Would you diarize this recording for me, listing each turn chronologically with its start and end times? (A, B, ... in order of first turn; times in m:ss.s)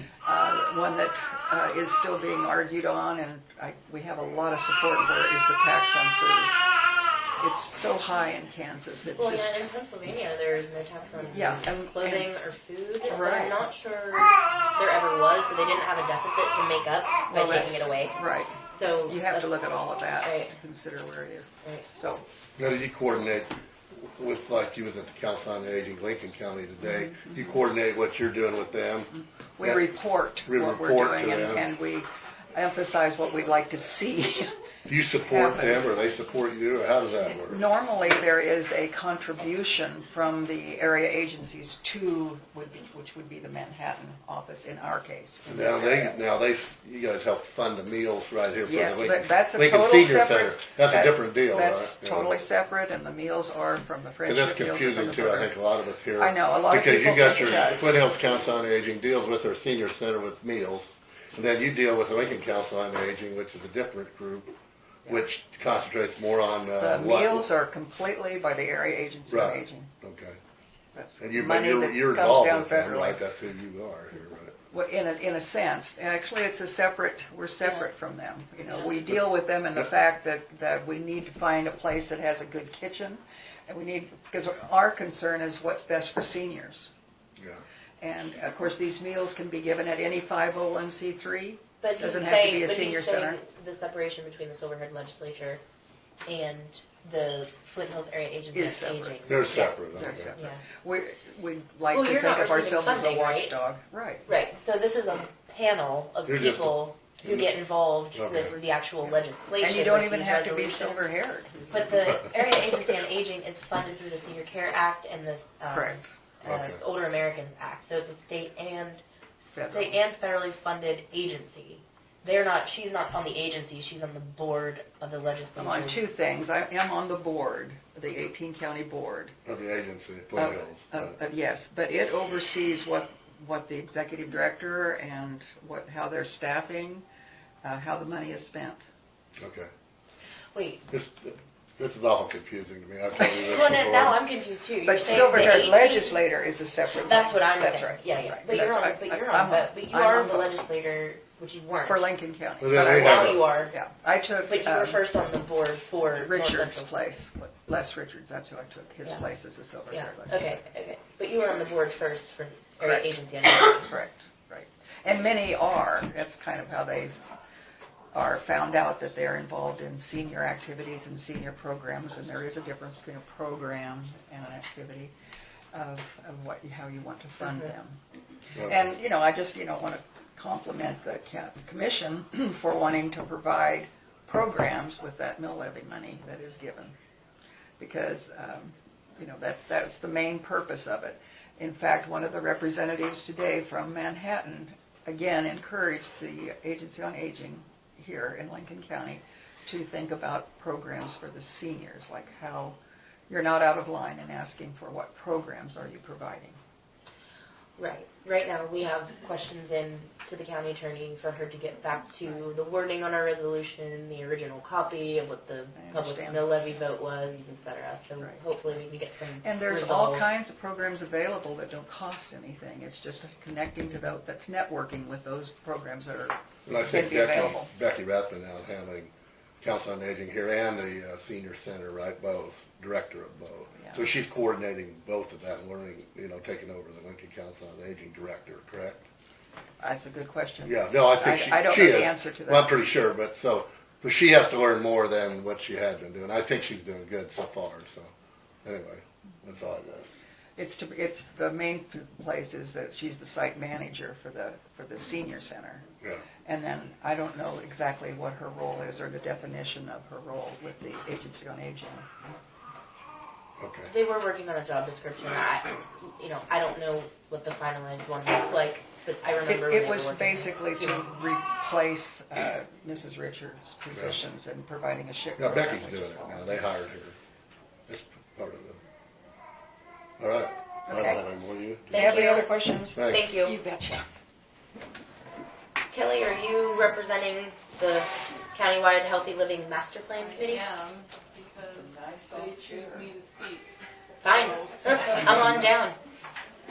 0:00.3-0:06.7 A
0:07.4-0:09.7 A
0:09.2-0:18.2 B
0:11.3-0:12.3 A
0:13.1-0:13.6 A
0:17.3-0:22.2 A
0:18.7-0:19.6 B
0:20.2-0:20.6 B
0:22.6-0:29.9 C
0:26.8-0:27.3 A
0:29.1-0:34.5 A
0:30.5-0:31.7 C
0:34.9-0:37.6 C
0:35.3-0:36.0 A
0:37.5-0:46.2 A
0:45.5-0:52.4 C
0:48.7-0:55.5 A
0:54.3-1:04.5 C
0:56.2-0:57.9 A
1:05.0-1:07.5 C
1:06.8-1:09.9 A
1:09.3-1:10.4 C
1:10.9-1:13.2 A
1:11.2-1:14.6 C
1:14.7-1:26.9 A
1:28.0-1:33.4 A
1:31.8-1:35.6 B
1:36.3-1:39.7 B
1:38.5-1:44.3 A
1:39.3-1:40.3 C
1:40.4-1:40.6 B
1:41.9-1:43.5 B
1:44.3-1:51.2 B
1:46.3-1:47.5 C
1:48.2-1:48.5 C
1:49.6-1:52.8 A
1:51.7-2:06.0 B
1:55.7-1:56.1 A
1:56.4-1:56.8 C
1:59.5-2:00.0 A
2:05.6-2:09.4 A
2:09.5-2:11.1 C
2:10.3-2:17.0 A
2:17.6-2:18.8 A
2:19.4-2:19.7 C
2:20.5-2:20.8 B
2:20.9-2:24.2 C
2:23.2-2:26.2 B
2:24.8-2:30.6 A
2:26.9-2:32.1 B
2:31.8-2:35.0 A
2:32.6-2:33.5 C
2:32.7-2:33.7 B
2:34.5-2:36.9 B
2:36.0-2:40.6 A
2:39.9-2:43.9 B
2:43.8-2:47.2 A
2:48.1-2:55.1 A
2:55.7-2:58.0 A
2:58.5-3:07.0 A
3:07.8-3:22.8 A
3:23.3-3:26.6 A
3:27.8-3:40.3 B
3:35.8-3:36.5 A
3:39.4-3:47.7 A
3:46.7-3:49.1 C
3:49.6-3:59.0 C
3:53.8-3:54.0 A
3:59.8-4:02.8 A
4:00.7-4:08.1 C
4:08.6-4:10.1 C
4:10.6-4:15.9 A
4:16.4-4:22.1 A
4:23.6-4:23.9 C
4:23.9-4:31.1 B
4:29.4-4:36.8 A
4:35.4-4:37.2 C
4:37.9-4:38.8 C
4:40.2-4:42.1 C
4:40.9-4:41.2 A
4:41.9-4:42.5 B
4:41.9-4:44.1 A
4:43.0-4:43.3 C
4:43.0-4:43.6 B
4:45.9-4:50.7 B
4:50.3-4:55.3 D
4:51.6-4:53.1 A
4:54.2-4:56.0 B